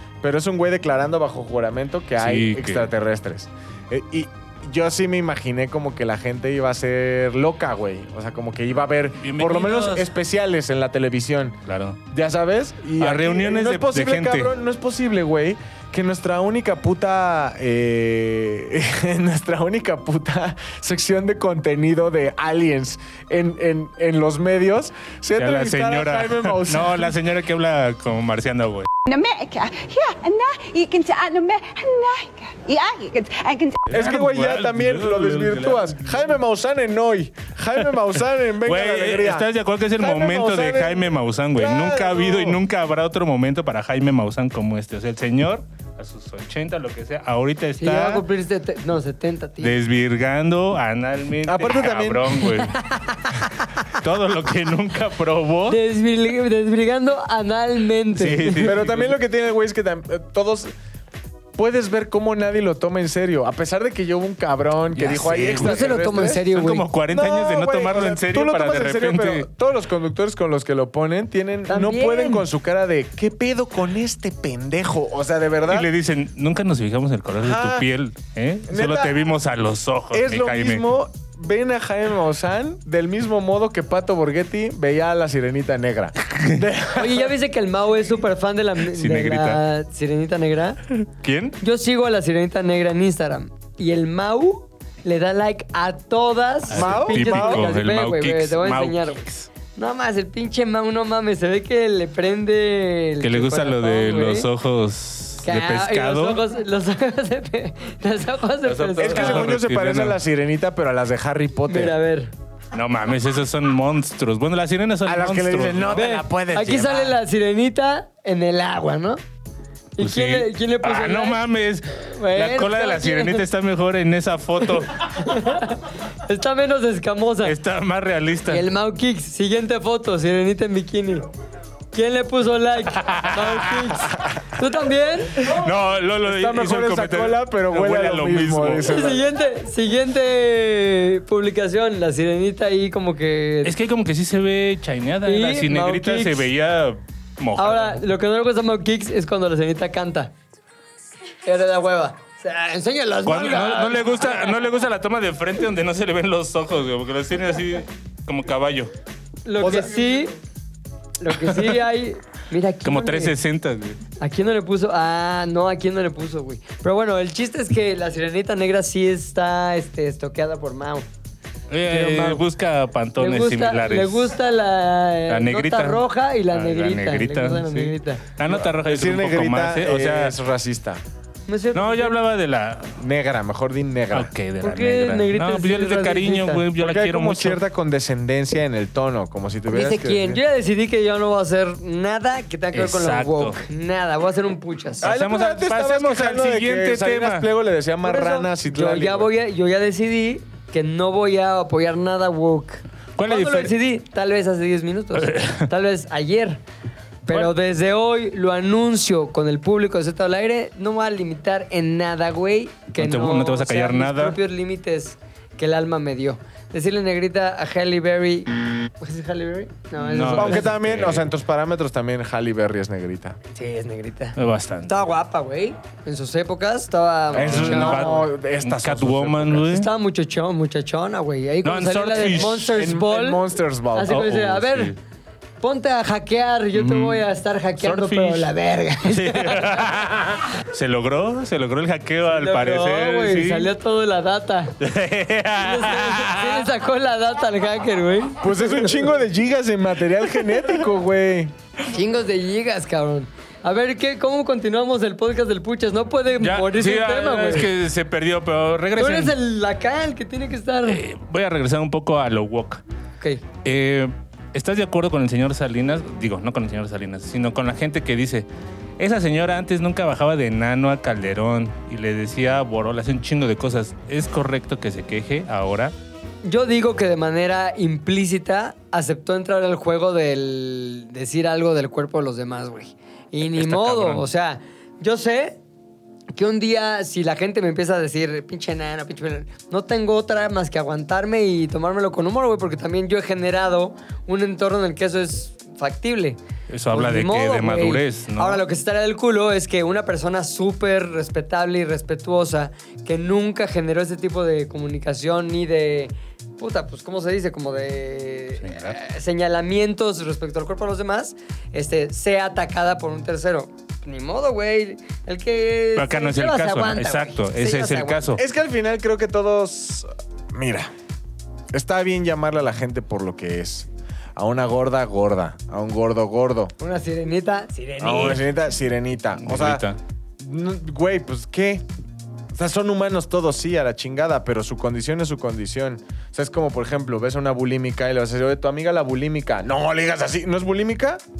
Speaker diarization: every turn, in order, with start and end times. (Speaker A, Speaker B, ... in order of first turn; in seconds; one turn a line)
Speaker A: 0.2-11.6
Speaker B: 2.2-2.9
Speaker B: 9.2-10.1
Speaker B: 11.7-12.0
Speaker A: 12.1-27.1
Speaker B: 13.0-14.5
Speaker B: 25.4-28.9
Speaker C: 29.1-33.9
Speaker A: 33.9-39.5
Speaker B: 33.9-36.2
Speaker B: 38.6-48.2
Speaker A: 40.0-42.6
Speaker D: 47.8-49.8
Speaker B: 49.6-52.8
Speaker A: 51.4-52.4
Speaker D: 52.7-53.6
Speaker B: 53.8-55.8
Speaker D: 55.7-58.8
Speaker B: 58.1-59.1
Speaker A: 58.6-60.7
Speaker A: 61.5-66.4
Speaker B: 64.9-69.5
Speaker D: 65.5-66.8
Speaker A: 67.1-75.9
Speaker D: 71.7-72.5
Speaker B: 75.7-80.8
Speaker A: 77.4-77.9
Speaker A: 78.7-79.2
Speaker A: 80.1-87.3
Speaker B: 86.3-86.6
Speaker D: 86.9-90.8
Speaker B: 88.8-89.6
Speaker B: 90.9-91.6
Speaker D: 91.6-104.5
Speaker B: 96.7-99.5
Speaker A: 96.7-97.7
Speaker B: 103.2-106.4
Speaker D: 105.4-109.5
Speaker B: 108.6-110.2
Speaker A: 109.0-112.0
Speaker D: 111.7-112.3
Speaker B: 112.7-116.0
Speaker A: 115.0-117.2
Speaker D: 115.9-119.2
Speaker D: 120.0-121.4
Speaker B: 120.0-125.2
Speaker D: 122.0-123.4
Speaker D: 125.0-127.5
Speaker B: 127.4-128.7
Speaker D: 128.5-131.3
Speaker D: 131.9-135.6
Speaker B: 132.9-134.0
Speaker B: 135.4-139.2
Speaker A: 136.2-139.2
Speaker D: 138.9-143.7
Speaker B: 143.6-148.0
Speaker D: 145.2-146.5
Speaker D: 147.6-150.3
Speaker D: 151.4-154.6
Speaker B: 153.2-158.9
Speaker D: 159.4-160.3
Speaker A: 159.6-160.3
Speaker D: 161.2-163.3
Speaker B: 162.8-164.0
Speaker D: 164.2-171.1
Speaker B: 171.7-174.3
Speaker D: 171.8-172.4
Speaker D: 173.2-178.2
Speaker B: 175.3-180.3
Speaker A: 178.4-181.0
Speaker D: 181.5-182.1
Speaker B: 181.7-183.0
Speaker A: 183.0-184.3
Speaker B: 184.1-187.6
Speaker D: 184.6-186.7
Speaker A: 186.8-190.4
Speaker D: 189.7-195.1
Speaker B: 192.7-193.6
Speaker B: 195.0-197.5
Speaker A: 195.0-199.3
Speaker D: 198.0-206.6
Speaker B: 203.2-203.7
Speaker B: 205.1-205.7
Speaker D: 207.2-220.8
Speaker B: 213.0-214.4
Speaker B: 220.0-221.3
Speaker A: 220.3-223.4
Speaker D: 223.5-228.2
Speaker B: 224.3-224.9
Speaker A: 227.3-229.7
Speaker B: 227.3-229.9
Speaker D: 229.7-234.9
Speaker B: 231.6-232.8
Speaker A: 232.5-234.2
Speaker B: 234.1-235.0
Speaker D: 235.6-239.9
Speaker B: 236.7-237.2
Speaker B: 237.8-238.5
Speaker B: 239.0-243.7
Speaker D: 242.3-244.8
Speaker B: 244.8-246.7
Speaker D: 245.6-249.1
Speaker A: 248.4-251.5
Speaker D: 251.8-257.7
Speaker B: 256.4-259.3
Speaker D: 258.9-261.0
Speaker B: 260.9-262.8
Speaker B: 263.6-268.5
Speaker B: 269.0-275.9
Speaker D: 276.4-285.6
Speaker B: 283.5-284.2
Speaker D: 286.3-296.4
Speaker B: 296.7-298.6
Speaker D: 296.9-318.4
Speaker B: 308.6-309.0
Speaker B: 315.9-318.4
Speaker A: 318.4-320.9
Speaker A: 321.7-326.7
Speaker D: 326.8-328.4
Speaker A: 328.0-329.8
Speaker B: 329.4-330.0
Speaker A: 330.4-331.8
Speaker A: 332.5-341.2